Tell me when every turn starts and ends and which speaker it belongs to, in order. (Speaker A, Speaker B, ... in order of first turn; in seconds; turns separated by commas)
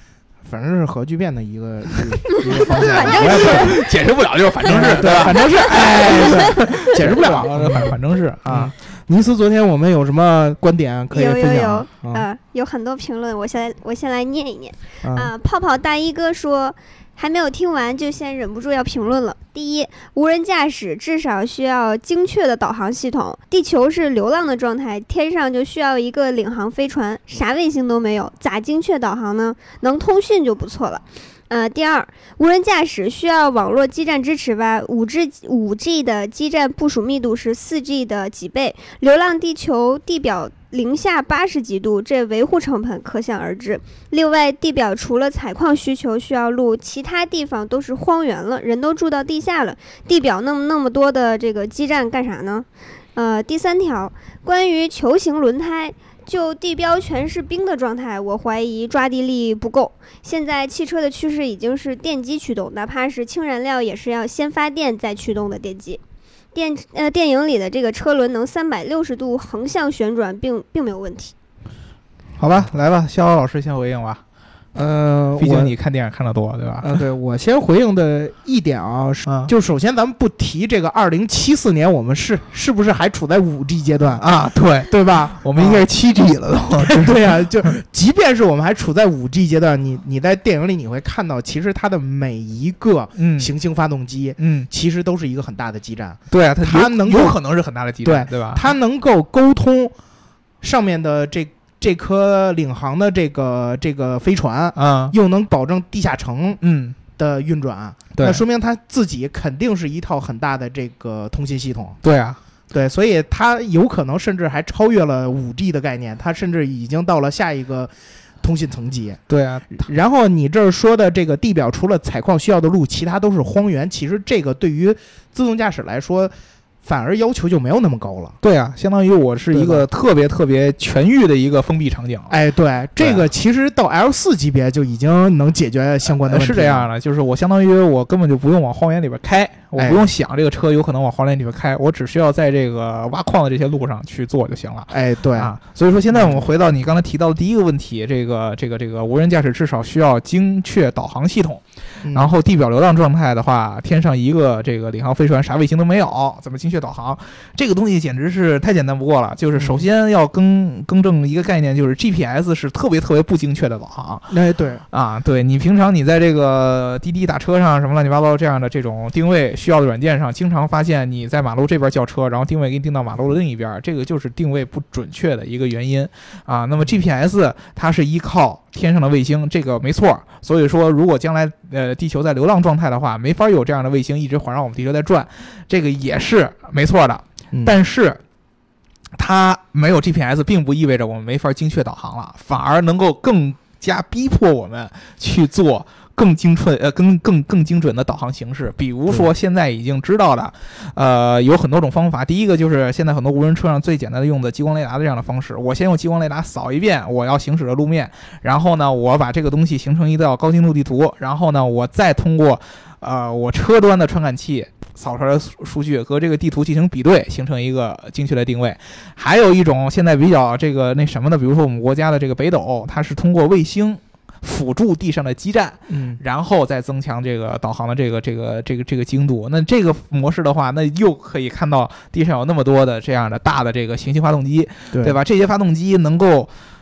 Speaker A: 0.4-3.9, Speaker B: 2.5-4.1, Speaker C: 2.6-8.7, Speaker A: 4.6-7.9, Speaker A: 8.5-12.3, Speaker B: 11.1-66.0, Speaker A: 15.0-15.3, Speaker B: 66.5-71.3, Speaker C: 72.4-74.2, Speaker A: 74.7-75.7, Speaker C: 75.4-77.0, Speaker A: 76.8-84.3, Speaker C: 79.2-79.5, Speaker C: 84.2-87.6, Speaker A: 84.8-85.9, Speaker A: 86.8-97.4, Speaker C: 93.2-93.5, Speaker C: 94.4-94.7, Speaker C: 96.3-98.7, Speaker A: 98.0-99.9, Speaker A: 100.6-106.6, Speaker C: 104.8-105.1, Speaker C: 106.6-107.0, Speaker A: 107.2-112.0, Speaker C: 108.1-108.4, Speaker C: 112.0-112.4, Speaker A: 112.7-119.2, Speaker C: 119.3-119.9, Speaker A: 119.7-126.3, Speaker A: 126.8-128.4, Speaker C: 128.4-132.3, Speaker A: 129.5-129.9, Speaker A: 132.3-136.9, Speaker C: 133.0-133.2, Speaker C: 136.2-164.3, Speaker A: 139.8-140.1, Speaker A: 144.9-145.5, Speaker A: 146.1-146.5, Speaker A: 152.0-152.3, Speaker A: 159.5-159.8, Speaker A: 164.3-164.8, Speaker C: 164.9-188.2, Speaker C: 189.2-236.5, Speaker A: 225.9-226.2, Speaker A: 234.9-235.2